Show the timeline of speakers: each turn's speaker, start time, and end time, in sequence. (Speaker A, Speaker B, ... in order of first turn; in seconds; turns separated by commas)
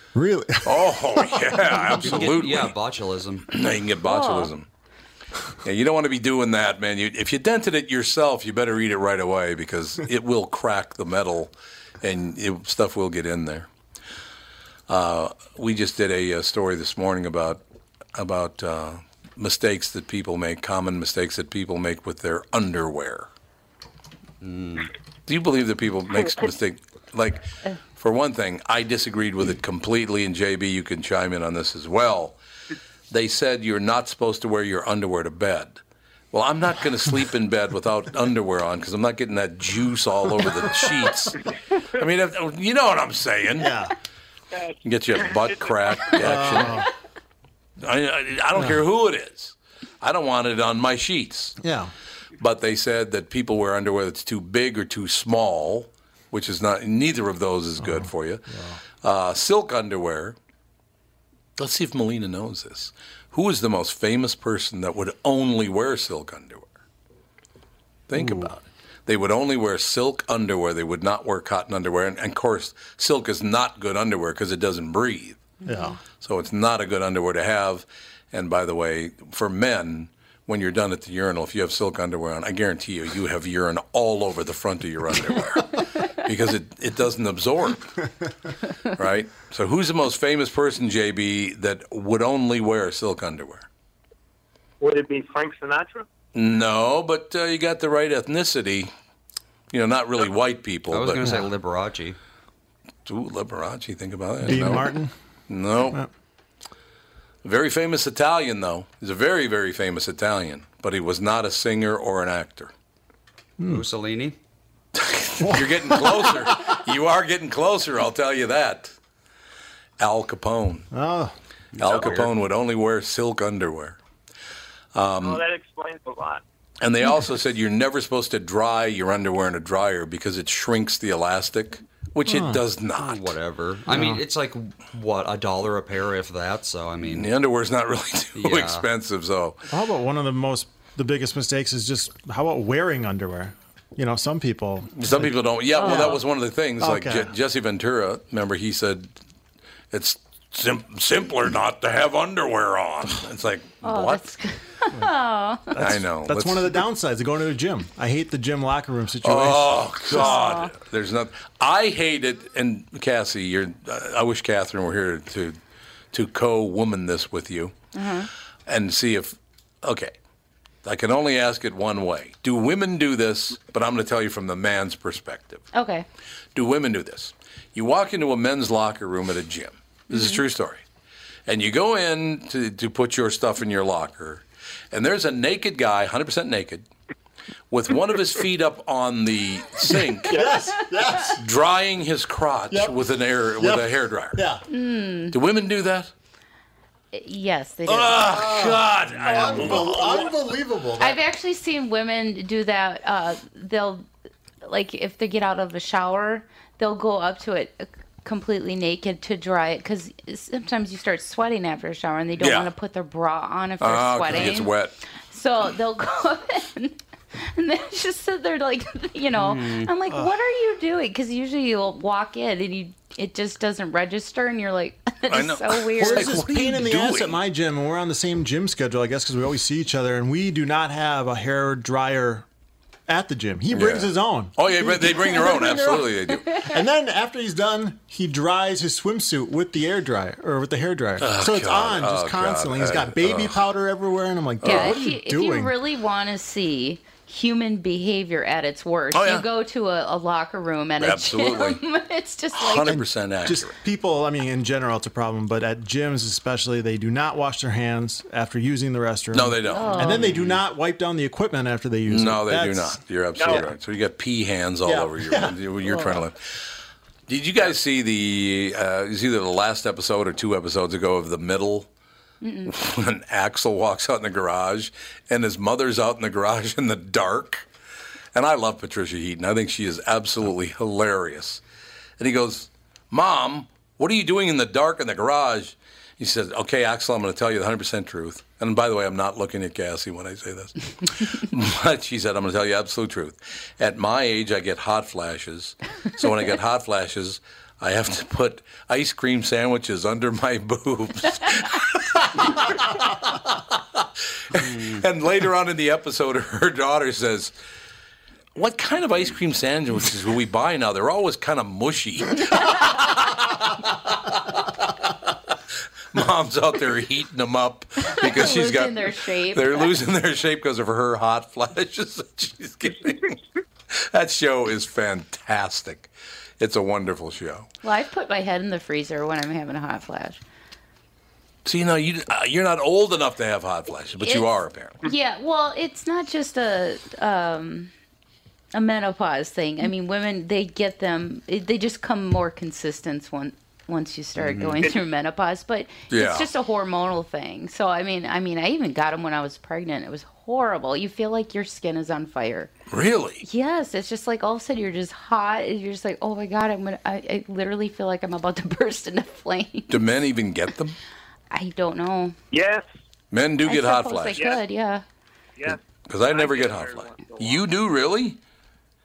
Speaker A: 0.1-2.2, Speaker B: 0.6-2.7, Speaker C: 1.9-3.5, Speaker B: 3.5-4.7, Speaker D: 4.0-4.5, Speaker B: 5.6-13.7, Speaker B: 14.9-17.6, Speaker B: 18.1-23.3, Speaker C: 24.4-24.9, Speaker B: 25.3-32.4, Speaker B: 33.1-35.8, Speaker B: 36.3-43.8, Speaker A: 43.6-43.9, Speaker E: 44.5-46.6, Speaker B: 44.8-46.8, Speaker A: 46.2-46.9, Speaker B: 47.8-51.6, Speaker A: 51.6-51.9, Speaker B: 52.4-58.4, Speaker A: 57.8-58.8, Speaker B: 59.0-60.4, Speaker B: 61.6-66.7, Speaker B: 68.1-75.4, Speaker A: 68.1-68.5, Speaker A: 75.6-76.0, Speaker D: 75.7-75.9, Speaker B: 76.2-88.0, Speaker B: 88.9-93.7, Speaker E: 94.8-96.1, Speaker B: 96.3-98.9, Speaker B: 99.7-101.2, Speaker C: 100.9-102.2, Speaker A: 101.2-101.5, Speaker B: 103.0-104.9, Speaker A: 104.4-105.1, Speaker B: 105.5-106.0, Speaker B: 107.4-112.7, Speaker A: 113.6-113.8, Speaker C: 113.7-114.3, Speaker B: 114.9-118.9, Speaker A: 115.4-116.7, Speaker B: 120.0-120.9, Speaker A: 120.9-121.3, Speaker C: 121.8-122.1, Speaker B: 121.8-124.0, Speaker B: 124.9-125.4, Speaker E: 125.2-126.4, Speaker B: 126.8-133.3, Speaker A: 132.2-132.6, Speaker C: 133.0-137.3, Speaker A: 133.9-134.2, Speaker B: 137.1-139.6, Speaker C: 138.3-138.8, Speaker A: 139.7-146.2, Speaker B: 144.9-149.1, Speaker D: 145.8-146.2, Speaker A: 146.8-147.3, Speaker B: 149.9-154.3, Speaker D: 153.8-155.8, Speaker A: 155.7-160.3, Speaker B: 155.8-156.7, Speaker B: 159.2-165.6, Speaker D: 160.1-160.7, Speaker B: 166.1-167.7, Speaker D: 167.9-168.3, Speaker B: 168.7-170.1, Speaker B: 170.8-175.7, Speaker D: 175.7-176.0, Speaker B: 176.5-180.8, Speaker D: 180.1-180.4, Speaker B: 181.4-186.9, Speaker B: 187.7-190.5, Speaker A: 189.9-191.4, Speaker E: 190.3-190.6, Speaker D: 190.7-191.3, Speaker B: 191.3-194.4, Speaker A: 192.7-193.0, Speaker A: 193.5-194.6, Speaker D: 194.7-195.3, Speaker B: 195.3-196.1, Speaker D: 197.1-198.3, Speaker B: 197.9-200.4, Speaker A: 198.2-201.2, Speaker D: 201.0-204.1, Speaker D: 204.6-214.7, Speaker B: 212.4-212.7, Speaker B: 213.8-214.9, Speaker D: 215.3-226.4, Speaker C: 219.4-219.9, Speaker B: 225.3-227.4, Speaker A: 226.0-232.4, Speaker A: 233.1-236.1, Speaker B: 233.7-236.5, Speaker D: 235.0-236.7, Speaker A: 236.6-245.7, Speaker B: 241.2-243.6, Speaker B: 244.6-245.0, Speaker D: 244.6-253.0, Speaker B: 249.1-249.4, Speaker B: 251.0-251.8, Speaker B: 252.5-253.8, Speaker A: 252.9-263.6, Speaker B: 259.3-260.2, Speaker D: 259.6-260.4, Speaker B: 262.1-266.4, Speaker E: 263.4-263.6, Speaker A: 264.8-266.1, Speaker B: 267.3-271.9, Speaker D: 272.4-272.7, Speaker B: 272.7-277.6, Speaker B: 278.3-281.6, Speaker B: 282.2-307.5, Speaker B: 308.5-315.5, Speaker B: 316.1-327.7, Speaker D: 318.0-319.9, Speaker D: 327.8-330.4, Speaker B: 331.6-335.0, Speaker D: 334.2-334.5, Speaker D: 335.0-337.9, Speaker D: 338.7-352.7, Speaker C: 344.4-344.7, Speaker B: 346.1-346.5, Speaker B: 352.9-353.4, Speaker D: 353.4-360.0, Speaker B: 359.9-360.9, Speaker D: 361.5-362.4, Speaker E: 362.5-362.9, Speaker B: 363.3-364.4, Speaker D: 363.6-365.0, Speaker E: 365.6-367.7, Speaker B: 365.7-368.4